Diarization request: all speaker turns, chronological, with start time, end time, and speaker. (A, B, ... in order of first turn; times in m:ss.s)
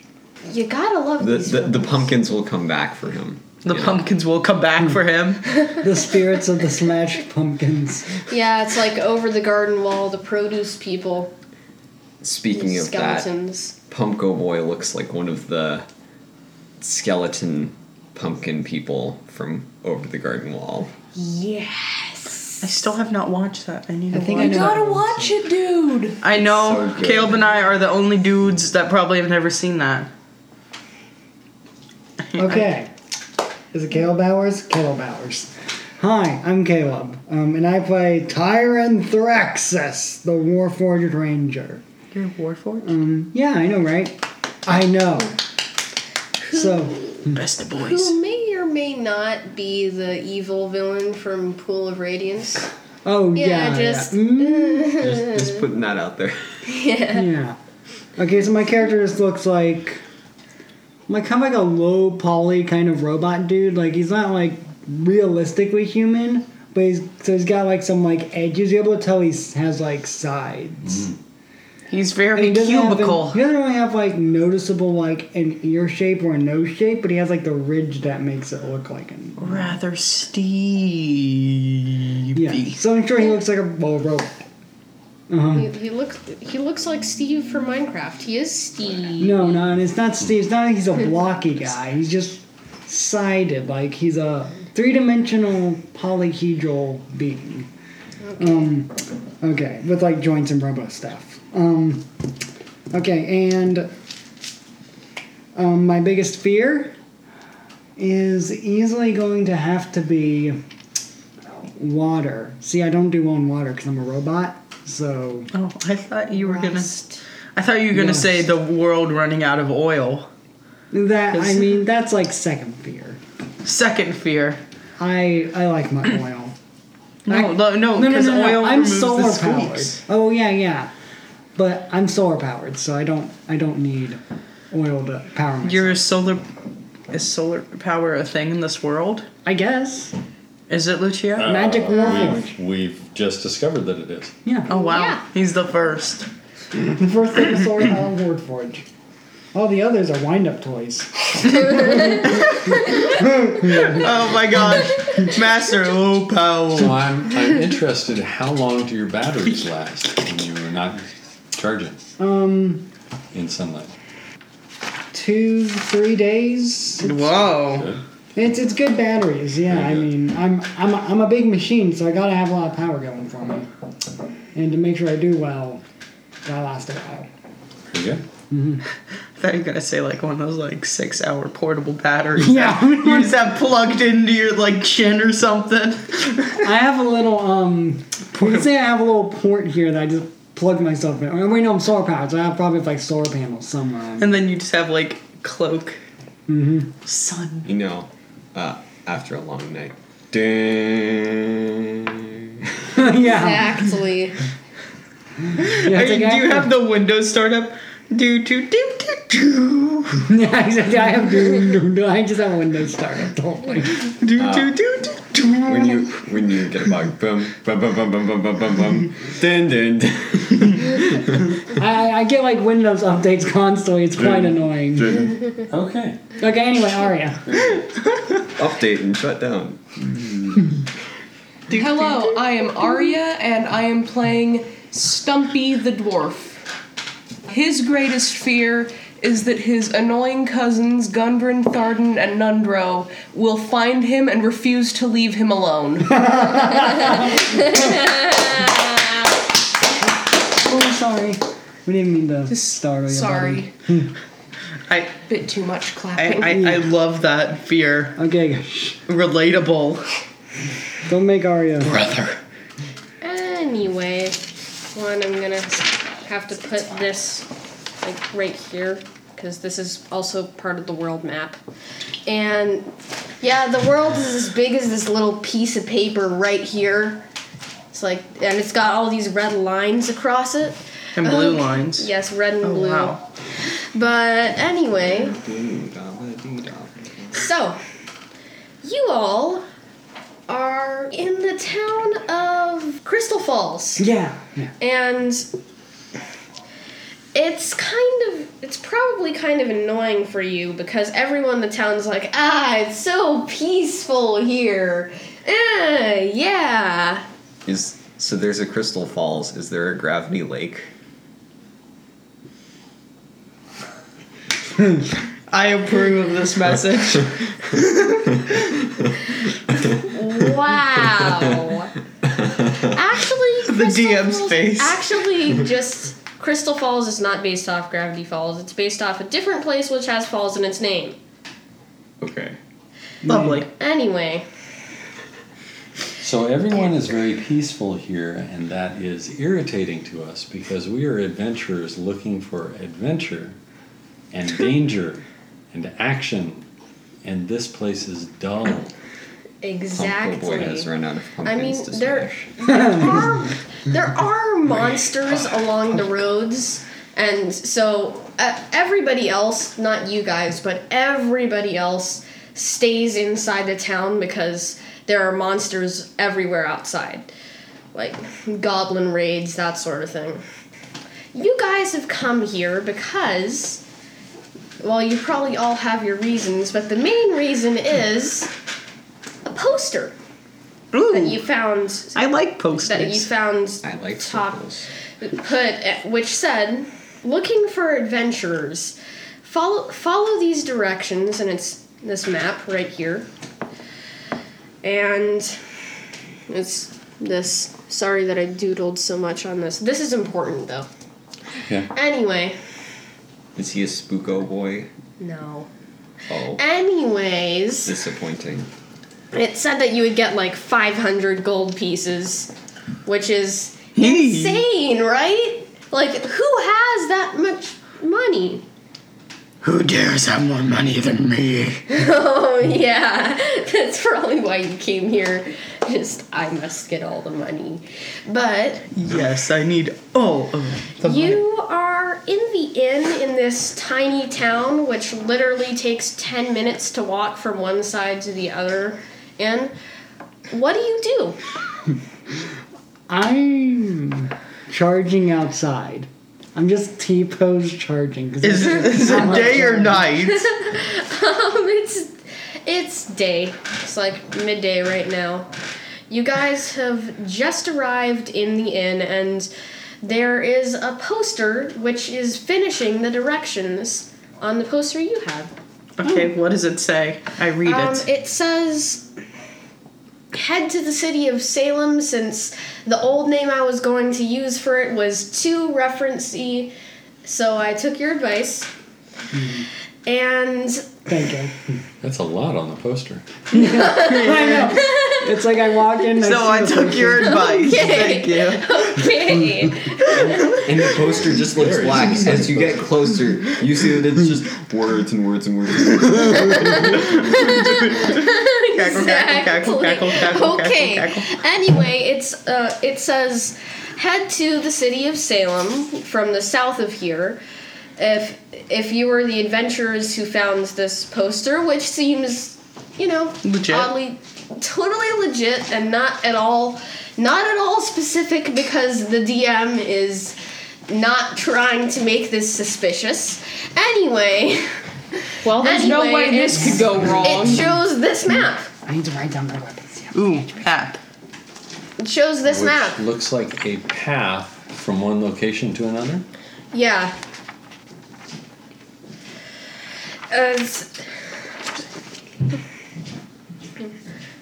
0:00.4-0:02.1 A
0:01.2-0:04.1 B
0:03.6-0:05.4 C
0:05.7-0:08.2 D
0:08.3-0:11.3 A
0:12.2-0:13.3 B
0:12.5-0:13.8 A
0:13.9-0:15.8 B
0:16.8-0:20.9 B
0:21.2-0:22.6 A
0:22.6-0:24.8 C
0:24.1-0:25.4 D
0:24.1-0:26.2 E
0:26.2-0:30.1 C
0:26.3-0:27.5 B
0:32.3-0:32.6 C
0:32.4-0:32.9 D
0:33.7-0:41.8 D
0:42.1-0:42.9 C
0:42.8-0:45.4 D
0:46.5-0:47.4 D
0:47.3-0:48.2 C
0:47.7-0:52.7 A
0:53.0-0:55.0 D
0:53.3-0:55.6 A
0:55.0-0:56.6 B
0:56.6-0:57.3 A
0:57.1-0:57.6 D
0:58.2-1:00.0 D
1:01.1-1:11.1 D
1:11.9-1:13.4 C
1:12.3-1:19.8 D
1:19.4-1:22.8 C
1:22.3-1:24.4 D
1:25.3-1:25.7 D
1:25.5-1:29.5 A
1:29.2-1:37.7 D
1:38.2-1:38.7 A
1:38.4-1:42.1 D
1:42.9-1:43.9 D
1:45.5-1:47.0 D
1:48.0-1:50.6 D
1:51.6-1:55.5 D
1:55.5-1:57.0 C
1:56.6-1:56.9 D
1:57.5-2:00.3 C
1:57.9-1:58.4 D
2:00.9-2:03.2 D
2:01.4-2:01.6 C
2:03.6-2:04.6 C
2:05.0-2:06.6 D
2:07.2-2:10.0 C
2:07.3-2:10.9 D
2:11.6-2:16.0 D
2:15.6-2:16.4 C
2:17.1-2:19.3 C
2:19.4-2:20.1 D
2:20.7-2:21.6 C
2:21.4-2:24.4 F
2:21.4-2:22.5 D
2:24.7-2:26.3 C
2:24.7-2:25.2 A
2:26.7-2:28.8 D
2:29.5-2:34.0 D
2:33.6-2:37.0 C
2:36.7-2:42.0 F
2:42.2-2:42.9 D
2:43.3-2:43.9 F
2:45.1-2:47.4 D
2:47.0-2:47.9 C
2:47.5-2:48.0 F
2:48.3-2:53.7 D
2:49.7-2:50.0 F
2:54.5-2:55.8 D
2:56.4-2:57.3 D
2:57.9-2:58.2 F
2:58.5-2:58.8 D
2:59.4-3:06.6 C
3:02.3-3:03.3 D
3:06.6-3:14.4 D
3:14.2-3:16.0 C
3:16.5-3:16.9 D
3:17.0-3:17.7 C
3:17.6-3:22.8 B
3:22.9-3:23.9 D
3:23.1-3:24.4 A
3:25.5-3:26.7 D
3:25.6-3:30.2 C
3:30.2-3:34.1 D
3:34.2-3:36.2 C
3:34.4-3:34.8 B
3:35.6-3:41.5 B
3:41.6-3:45.3 D
3:45.6-3:46.2 F
3:46.4-3:47.8 D
3:48.4-3:50.7 B
3:51.7-3:52.2 C
3:51.7-3:56.6 E
3:57.5-4:08.0 E
4:06.1-4:07.7 D
4:10.5-4:14.1 D
4:12.5-4:13.7 E
4:14.9-4:15.2 C
4:15.2-4:16.6 E
4:16.1-4:18.2 C
4:16.5-4:16.8 D
4:18.2-4:19.0 D
4:19.1-4:20.1 C
4:21.0-4:22.0 D
4:21.8-4:22.4 C
4:23.2-4:27.5 A
4:28.0-4:31.6 A
4:32.2-4:37.2 A
4:37.9-4:45.4 A
4:41.2-4:43.2 C
4:45.0-4:47.3 B
4:47.3-4:47.8 A
4:48.8-4:49.6 A
4:50.5-4:54.0 A
4:54.0-4:54.7 D
4:54.8-4:55.5 A
4:57.3-5:07.2 A
5:07.6-5:10.9 B
5:15.5-5:17.8 C
5:18.3-5:19.2 B
5:19.7-5:20.5 B
5:20.0-5:21.9 A
5:21.1-5:21.7 B
5:22.2-5:23.0 B
5:22.9-5:31.2 A
5:23.6-5:25.0 C
5:32.2-5:32.6 B
5:33.2-5:33.6 D
5:33.2-5:33.7 C
5:33.7-5:34.4 A
5:36.2-5:43.6 F
5:44.3-5:46.6 F
5:47.2-5:48.9 F
5:49.6-5:50.9 A
5:49.9-5:52.5 B
5:51.4-6:07.3 A
6:07.9-6:10.4 A
6:11.3-6:13.8 A
6:14.8-6:18.5 A
6:19.4-6:20.2 A
6:20.9-6:21.4 C
6:21.1-6:24.6 A
6:22.1-6:23.3 C
6:23.8-6:24.9 B
6:25.2-6:33.3 A
6:34.8-6:35.6 A
6:36.5-6:40.9 A
6:41.9-6:42.6 A
6:43.6-6:44.9 B
6:45.2-6:45.7 A
6:46.3-6:46.6 B
6:46.5-6:47.9 A
6:47.8-6:48.7 B
6:49.3-6:52.5 A
6:53.0-6:58.6 A
6:53.9-6:54.6 C
6:59.6-7:01.8 C
7:01.9-7:08.9 A
7:08.9-7:11.4 C
7:11.0-7:19.7 A
7:20.5-7:21.4 A
7:23.1-7:30.0 D
7:28.4-7:30.4 C
7:30.2-7:35.5 A
7:36.1-7:39.5 A
7:40.0-7:45.5 A
7:46.0-7:48.1 C
7:47.6-7:49.0 A
7:50.3-7:56.7 A
7:57.2-7:58.7 A
7:59.3-7:59.6 D
8:00.0-8:01.0 A
8:01.1-8:01.6 D
8:02.0-8:03.5 F
8:03.5-8:07.5 D
8:03.6-8:05.3 A
8:04.0-8:04.7 C
8:06.2-8:08.7 C
8:07.2-8:10.7 A
8:10.4-8:13.0 F
8:10.5-8:17.8 B
8:16.4-8:27.4 A
8:18.0-8:21.3 C
8:28.0-8:44.8 A
8:33.4-8:33.9 C
8:45.4-8:47.7 E
8:45.5-8:48.7 A
8:46.5-8:47.0 D
8:48.8-8:50.7 D
8:50.1-8:51.0 C
8:52.0-8:53.0 A
8:52.4-8:56.2 F
8:56.7-8:57.1 A
9:00.3-9:01.1 A